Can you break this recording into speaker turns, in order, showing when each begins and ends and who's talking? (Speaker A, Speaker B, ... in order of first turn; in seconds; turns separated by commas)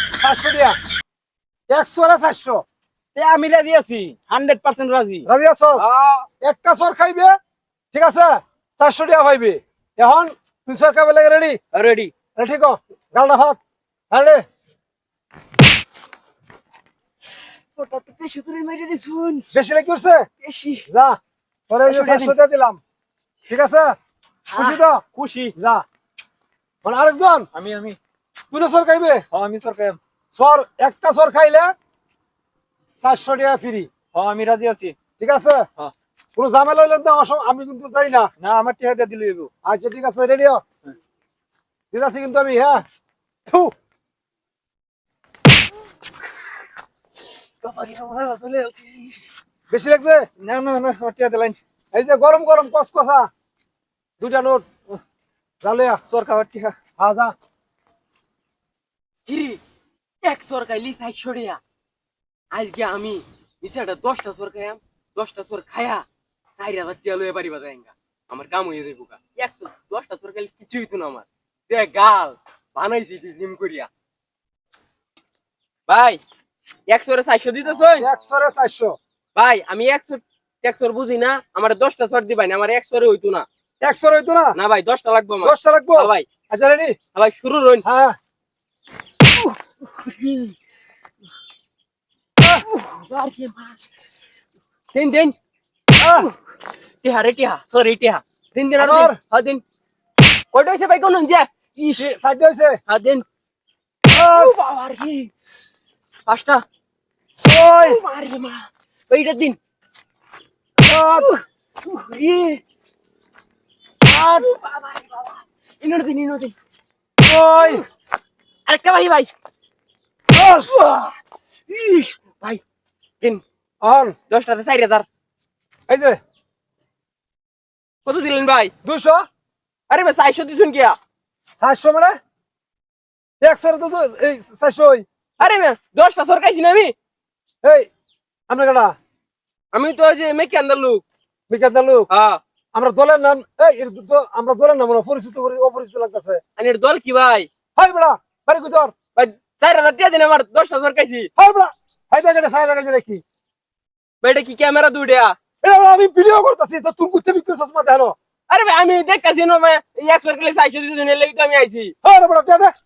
Speaker A: 0.2-0.8, Speaker A: 1.7-2.6, Speaker B: 3.1-6.2, Speaker A: 5.2-5.9, Speaker A: 6.4-7.3, Speaker A: 7.9-11.6, Speaker B: 11.7-12.1, Speaker A: 12.3-13.6, Speaker A: 14.1-14.4, Speaker C: 17.8-19.4, Speaker A: 19.5-20.3, Speaker C: 20.4-20.8, Speaker A: 20.9-21.1, Speaker A: 21.7-22.8, Speaker B: 21.9-22.3, Speaker A: 23.5-23.9, Speaker B: 24.5-25.5, Speaker A: 24.6-25.0, Speaker A: 25.6-25.8, Speaker A: 26.8-27.5, Speaker B: 27.5-28.0, Speaker A: 28.5-29.2, Speaker B: 29.3-30.0, Speaker A: 30.3-31.7, Speaker A: 33.0-33.9, Speaker B: 34.1-35.0, Speaker A: 35.2-35.7, Speaker A: 36.4-38.3, Speaker B: 38.4-39.5, Speaker A: 39.6-40.6, Speaker A: 41.9-42.8, Speaker A: 43.5-43.7, Speaker B: 47.6-49.1, Speaker A: 49.7-50.3, Speaker B: 50.4-51.6, Speaker A: 51.9-53.3, Speaker A: 54.2-54.7, Speaker A: 55.6-56.0, Speaker B: 56.1-56.8, Speaker A: 57.0-57.3, Speaker C: 59.3-59.6, Speaker C: 60.2-61.6, Speaker C: 62.5-66.0, Speaker C: 66.6-73.9, Speaker C: 75.9-76.2, Speaker C: 76.9-78.1, Speaker A: 78.0-79.0, Speaker C: 79.3-83.5, Speaker A: 83.8-84.5, Speaker C: 84.5-86.2, Speaker A: 85.4-87.0, Speaker C: 87.1-87.8, Speaker A: 87.8-88.1, Speaker C: 89.4-90.5, Speaker C: 92.6-93.8, Speaker C: 94.9-95.3, Speaker A: 96.0-96.3, Speaker C: 96.0-96.3, Speaker C: 97.0-99.6, Speaker A: 98.8-99.2, Speaker C: 100.5-102.1, Speaker A: 102.0-102.8, Speaker C: 102.9-103.2, Speaker A: 104.1-104.6, Speaker C: 104.2-105.3, Speaker C: 106.3-106.6, Speaker A: 107.4-108.0, Speaker C: 107.7-109.6, Speaker A: 110.8-111.3, Speaker C: 111.0-112.6, Speaker A: 114.0-114.5, Speaker C: 114.3-116.5, Speaker A: 117.2-117.8, Speaker C: 117.5-117.8, Speaker C: 118.7-119.3, Speaker A: 120.3-120.7, Speaker C: 120.7-121.1, Speaker C: 121.7-122.6, Speaker A: 123.8-124.2, Speaker C: 124.3-125.0, Speaker A: 125.9-126.2, Speaker C: 128.0-128.7, Speaker A: 128.8-129.2, Speaker C: 129.9-131.0, Speaker A: 131.6-132.2, Speaker A: 133.4-135.0, Speaker C: 135.4-136.9, Speaker A: 137.6-137.9, Speaker A: 138.5-138.9, Speaker C: 139.7-141.0, Speaker A: 141.5-142.1, Speaker C: 142.1-142.4, Speaker A: 142.7-146.4, Speaker C: 146.6-147.5, Speaker A: 147.8-148.9, Speaker C: 149.2-151.3, Speaker A: 151.4-153.2, Speaker C: 154.2-155.4, Speaker A: 155.6-158.1, Speaker C: 158.5-161.9, Speaker A: 162.0-162.7